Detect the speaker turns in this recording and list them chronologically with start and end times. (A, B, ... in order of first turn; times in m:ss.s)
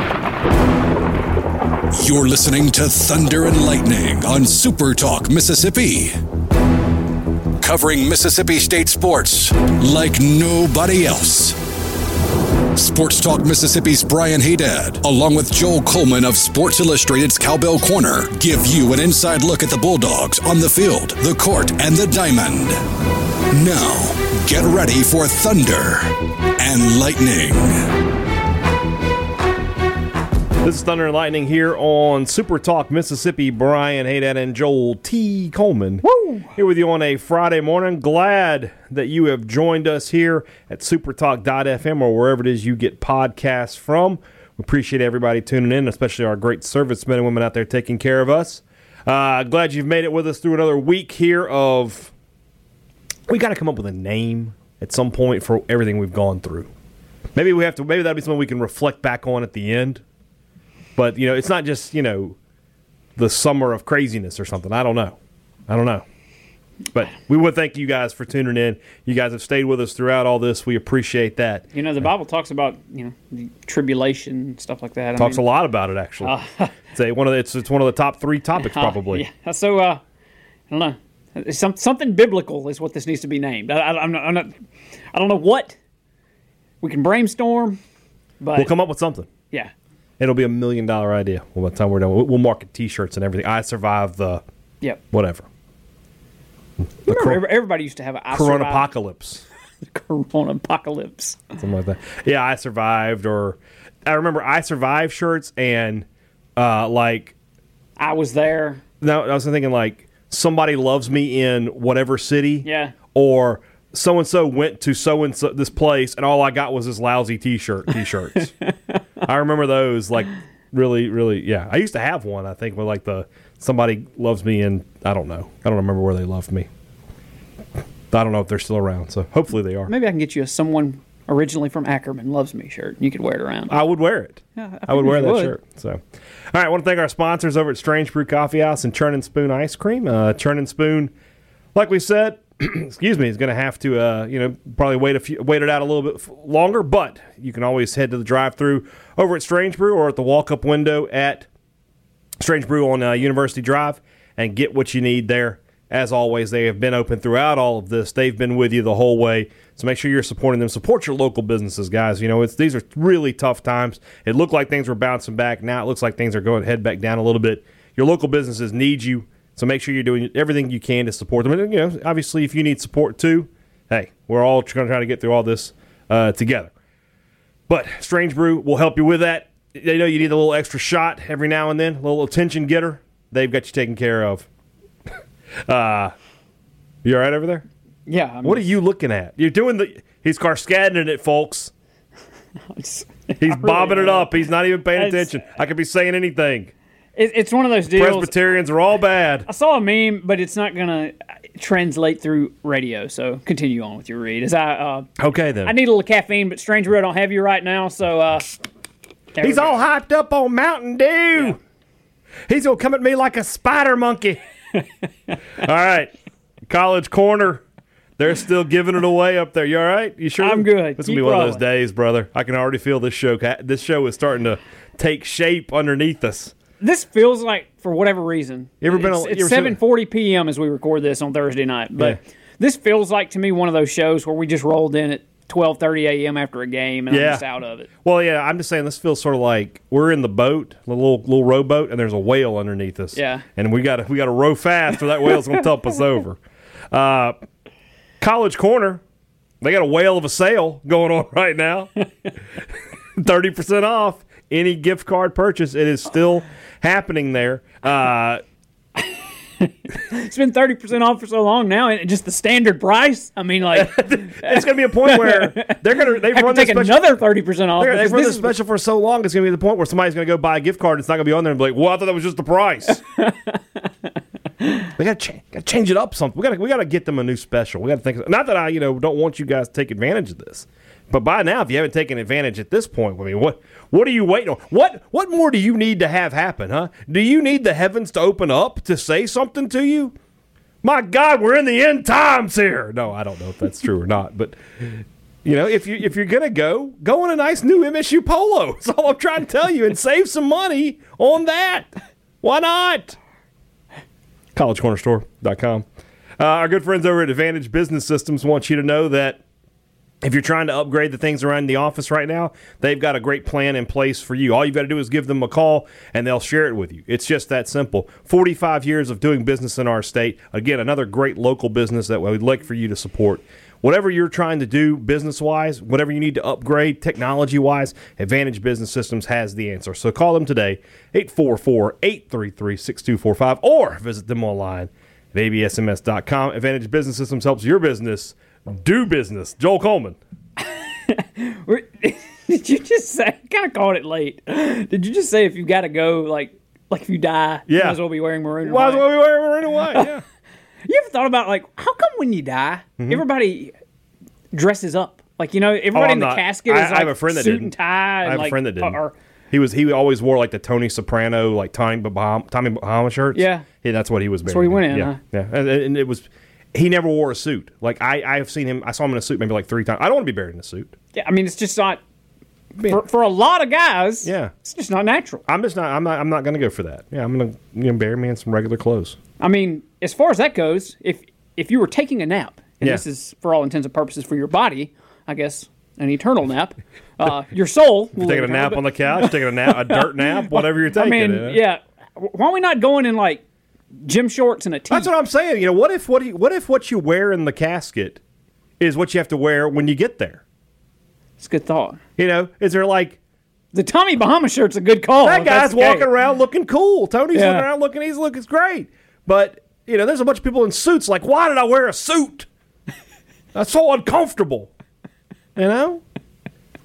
0:01.9-0:06.1 A
0:07.6-0:11.6 A
0:12.7-0:22.8 A
0:23.5-0:27.9 A
0:30.6-0:36.0 B
0:36.0-0:36.5 C
0:36.5-0:52.1 B
0:53.3-0:56.7 B
0:57.3-1:00.0 B
1:01.0-1:02.4 B
1:03.2-1:05.2 B
1:05.7-1:06.0 B
1:06.9-1:12.0 B
1:11.7-1:15.4 C
1:15.2-1:16.4 B
1:16.2-1:16.7 C
1:16.9-1:19.2 B
1:18.6-1:20.0 C
1:20.7-1:24.5 C
1:25.1-1:25.8 C
1:26.8-1:27.8 C
1:28.4-1:28.7 C
1:28.6-1:29.3 B
1:30.2-1:34.4 B
1:35.1-1:35.4 B
1:37.0-1:37.4 B
1:37.1-1:38.9 C
1:38.3-1:39.4 B
1:39.8-1:41.5 C
1:41.6-1:47.3 B
1:48.0-1:48.8 C
1:49.0-1:58.5 B
1:52.6-1:53.0 C
1:58.7-1:59.0 C
1:59.2-2:06.7 B
2:08.1-2:09.9 B
2:09.9-2:13.8 C
2:13.7-2:21.1 B
2:14.6-2:15.6 C
2:21.7-2:31.5 B
2:32.4-2:56.7 B
2:57.7-3:04.5 B
3:05.1-3:06.1 B
3:07.0-3:07.6 B
3:08.0-3:08.7 C
3:08.4-3:11.7 B
3:12.7-3:14.3 C
3:13.4-3:16.7 B
3:14.9-3:15.3 C
3:17.2-3:18.3 C
3:17.9-3:19.5 B
3:19.4-3:25.1 C
3:25.2-3:25.7 B
3:25.6-3:28.5 C
3:29.4-3:29.8 C
3:29.4-3:31.6 B
3:32.5-3:34.4 B
3:35.6-3:36.1 B
3:36.7-3:37.6 B
3:38.2-3:46.5 B
3:40.4-3:41.6 C
3:46.8-3:57.9 C
3:48.8-3:49.8 B
3:57.1-3:57.4 B
3:58.0-4:07.4 B
4:03.1-4:03.4 C
4:08.2-4:09.0 B
4:09.6-4:18.4 B
4:19.6-4:28.5 C
4:23.7-4:27.1 B
4:27.8-4:33.0 B
4:33.1-4:33.9 C
4:35.0-4:50.1 B
4:50.8-5:01.9 B
5:02.4-5:03.2 B
5:04.5-5:05.8 B
5:06.4-5:09.4 B
5:10.2-5:40.2 B
5:40.6-5:49.0 C
5:47.7-5:48.0 B
5:48.6-5:50.2 B
5:50.8-5:53.7 C
5:54.5-5:59.1 C
5:55.9-5:59.0 B
5:59.5-6:10.9 B
6:03.3-6:03.6 C
6:04.4-6:05.2 C
6:11.1-6:12.0 C
6:12.8-6:15.4 C
6:14.2-6:14.5 B
6:15.5-6:19.2 B
6:19.4-6:33.4 C
6:28.1-6:31.6 B
6:34.0-6:35.1 C
6:34.9-6:38.2 B
6:38.8-6:40.4 B
6:41.4-6:42.0 C
6:42.2-6:43.2 B
6:43.7-6:46.1 C
6:45.2-6:52.5 B
6:47.3-6:47.7 C
6:53.5-6:54.7 B
6:55.6-6:56.0 B